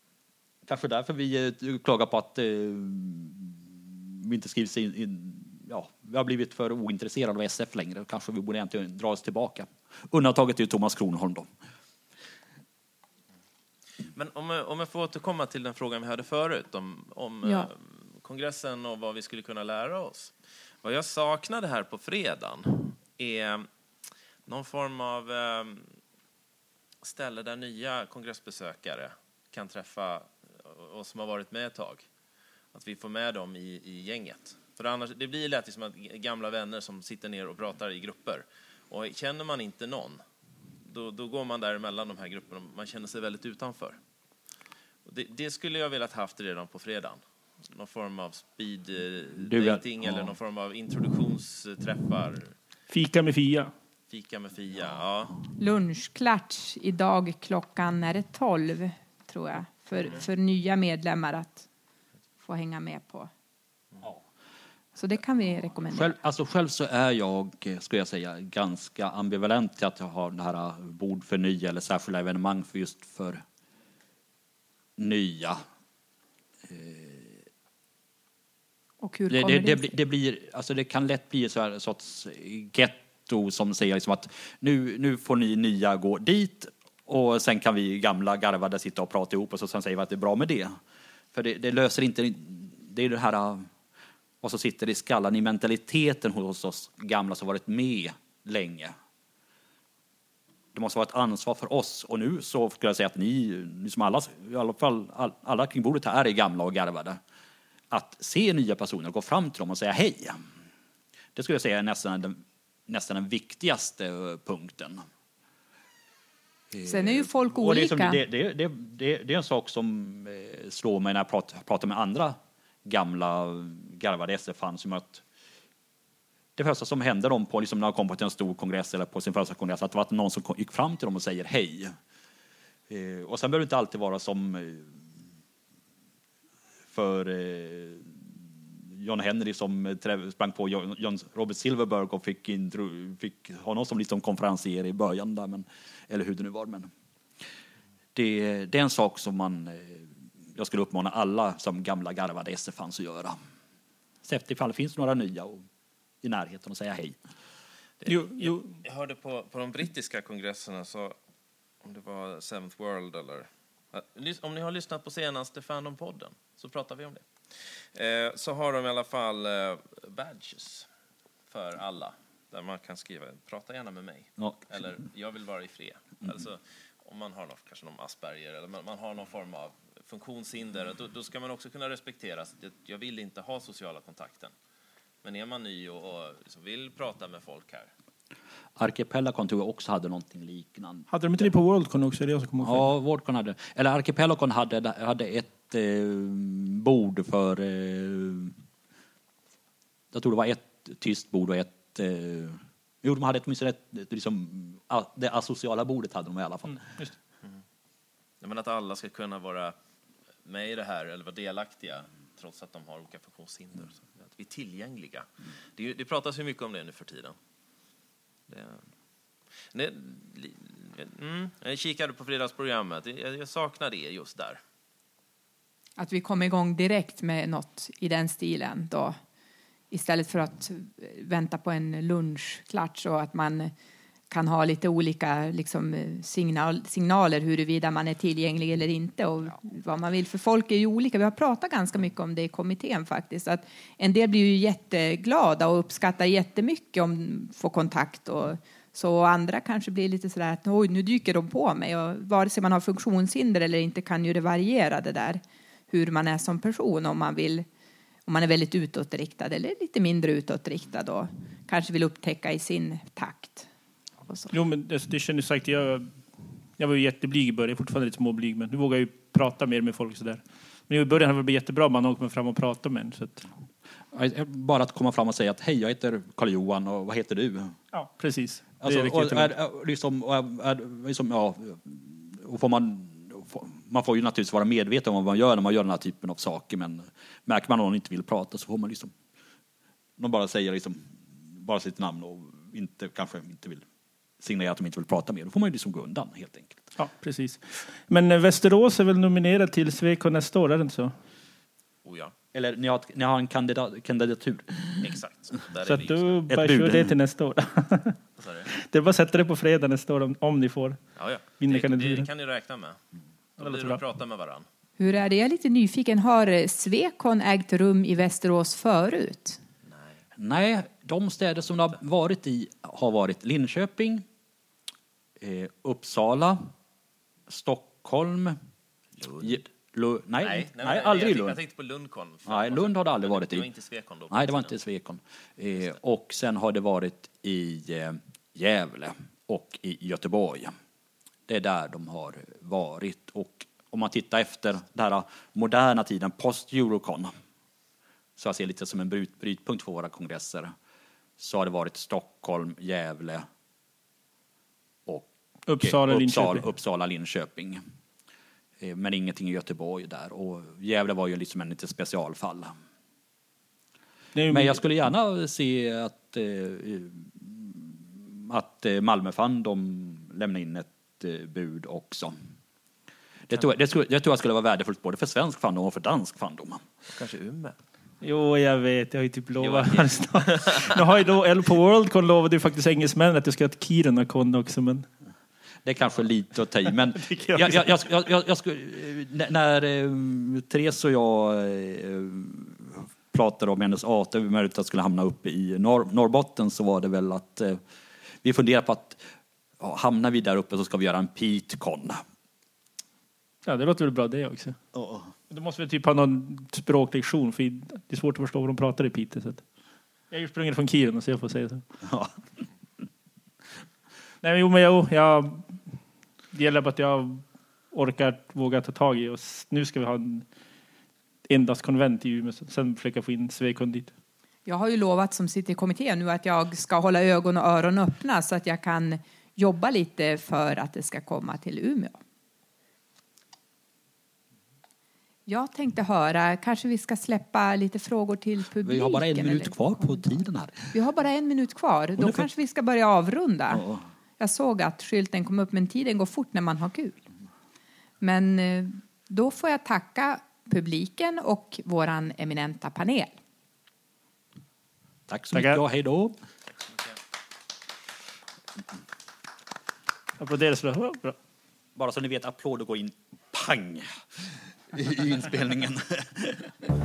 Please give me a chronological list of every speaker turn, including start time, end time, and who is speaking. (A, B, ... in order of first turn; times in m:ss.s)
0:00.7-0:11.5 A
0:14.1-0:23.7 B
0:17.4-0:17.7 C
0:24.4-0:26.0 B
0:27.0-0:32.0 B
0:32.7-0:40.2 B
0:40.8-0:44.0 B
0:45.0-0:52.6 B
0:49.4-0:50.3 A
0:52.9-0:53.7 D
0:54.1-0:55.4 B
0:55.6-1:01.7 C
1:02.4-1:03.3 C
1:05.0-1:06.1 C
1:05.9-1:13.4 A
1:15.0-1:15.6 A
1:16.7-1:17.4 A
1:19.0-1:19.9 C
1:19.3-1:30.7 A
1:31.3-1:33.7 A
1:34.4-1:38.9 A
1:40.7-1:47.2 A
1:47.9-1:50.4 A
1:51.3-1:55.0 A
1:56.7-2:05.2 A
1:56.8-1:58.2 C
2:06.6-2:11.9 A
2:12.9-2:14.9 A
2:16.9-2:26.9 A
2:28.1-2:33.4 A
2:34.2-2:35.6 A
2:36.2-2:37.2 A
2:38.0-2:41.2 B
2:38.1-2:38.7 D
2:41.8-2:50.9 B
2:51.5-3:04.5 B
3:05.2-3:07.9 B
3:08.8-3:11.1 A
3:11.1-3:12.9 D
3:12.6-3:18.6 A
3:20.1-3:26.8 A
3:26.7-3:27.1 D
3:28.4-3:29.8 B
3:30.4-3:37.3 B
3:38.5-3:38.9 B
3:39.7-3:44.6 B
3:46.0-3:49.2 C
3:49.9-3:53.7 C
3:54.3-4:17.7 C
4:18.3-4:23.7 C
4:24.3-4:24.5 C
4:24.5-4:26.2 D
4:26.8-4:33.4 D
4:34.1-4:37.8 A
4:37.9-4:39.5 D
4:38.8-4:49.1 A
4:50.2-4:53.8 A
4:54.4-4:56.9 A
4:57.0-5:01.1 D
5:02.0-5:02.3 B
5:02.5-5:05.1 A
5:05.0-5:06.4 B
5:05.8-5:08.2 D
5:06.5-5:07.1 A
5:08.4-5:08.7 B
5:08.7-5:11.0 D
5:11.2-5:13.0 B
5:11.6-5:12.3 D
5:13.6-5:14.7 B
5:13.6-5:14.0 D
5:15.0-5:19.6 C
5:19.9-5:20.2 B
5:20.4-5:24.2 A
5:25.4-5:26.7 A
5:27.5-5:28.6 A
5:29.2-5:29.6 B
5:29.4-5:31.6 A
5:30.4-5:34.7 B
5:32.5-5:33.7 A
5:34.3-5:40.7 A
5:41.5-5:47.3 A
5:48.4-5:50.7 A
5:51.4-5:53.4 A
5:55.0-5:57.8 A
5:55.7-5:56.6 D
5:58.8-6:02.7 A
6:04.3-6:04.8 D
6:04.5-6:12.3 A
6:13.5-6:16.8 A
6:17.1-6:17.8 B
6:18.2-6:25.0 D
6:19.6-6:21.0 B
6:25.8-6:37.8 A
6:27.2-6:27.9 D
6:38.4-6:39.2 A
6:39.8-6:42.2 A
6:43.6-6:44.8 D
6:44.9-6:45.3 A
6:45.5-6:49.6 D
6:50.3-6:51.8 D
6:52.0-6:52.3 A
6:54.4-6:56.0 D
6:56.5-7:00.4 D
7:01.5-7:04.1 D
7:04.7-7:12.2 C
7:15.5-7:20.2 C
7:18.8-7:20.8 A
7:20.9-7:23.9 C
7:22.2-7:22.4 A
7:23.7-7:24.0 A
7:24.4-7:27.2 C
7:28.2-7:33.4 C
7:35.3-7:36.4 A
7:35.6-7:35.8 D
7:40.4-7:41.4 D
7:42.0-7:46.8 A